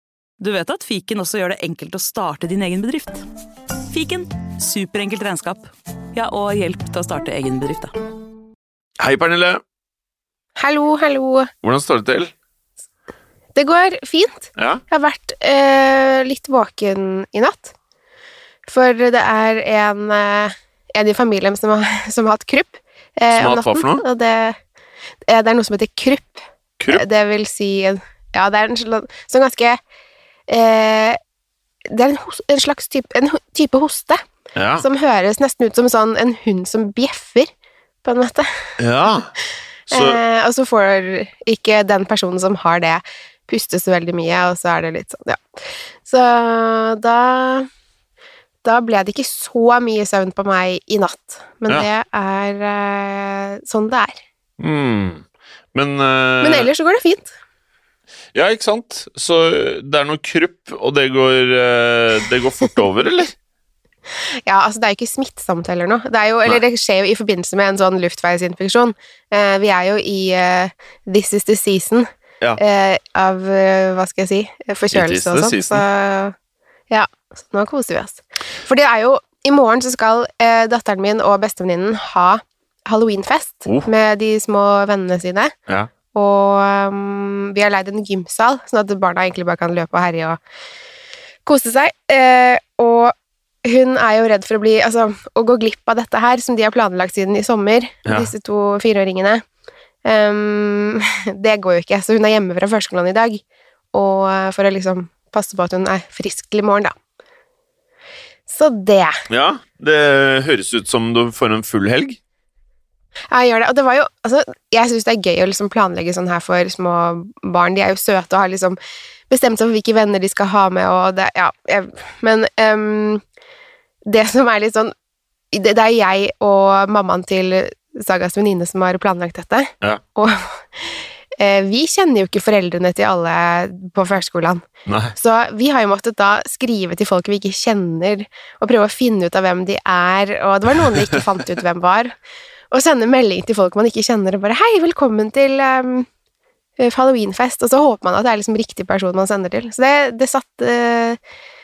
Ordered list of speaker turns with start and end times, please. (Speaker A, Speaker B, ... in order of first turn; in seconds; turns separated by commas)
Speaker A: 0.4-3.2, Speaker A: 3.9-7.9, Speaker B: 9.0-9.6, Speaker C: 10.6-11.5, Speaker B: 11.6-12.3, Speaker C: 13.6-17.7, Speaker B: 14.6-14.8, Speaker C: 18.7-24.6, Speaker B: 23.3-24.0, Speaker C: 25.3-29.8, Speaker C: 30.5-31.2, Speaker C: 31.9-34.2, Speaker B: 34.5-34.9, Speaker C: 34.8-37.5, Speaker C: 38.0-38.5, Speaker B: 38.8-39.3, Speaker C: 39.9-47.7, Speaker B: 39.9-40.2, Speaker C: 48.6-54.2, Speaker B: 54.6-56.7, Speaker C: 56.4-57.3, Speaker B: 58.3-63.3, Speaker C: 64.5-76.3, Speaker B: 74.9-75.8, Speaker C: 76.9-85.5, Speaker C: 86.1-90.4, Speaker C: 91.5-99.4, Speaker B: 98.1-98.3, Speaker C: 100.0-107.0, Speaker C: 108.5-109.2, Speaker B: 109.3-112.2, Speaker C: 113.3-118.8, Speaker C: 119.3-123.2, Speaker C: 124.1-124.9, Speaker C: 125.5-134.6, Speaker B: 134.9-135.2, Speaker C: 135.2-142.2, Speaker C: 142.7-146.1, Speaker C: 146.8-151.2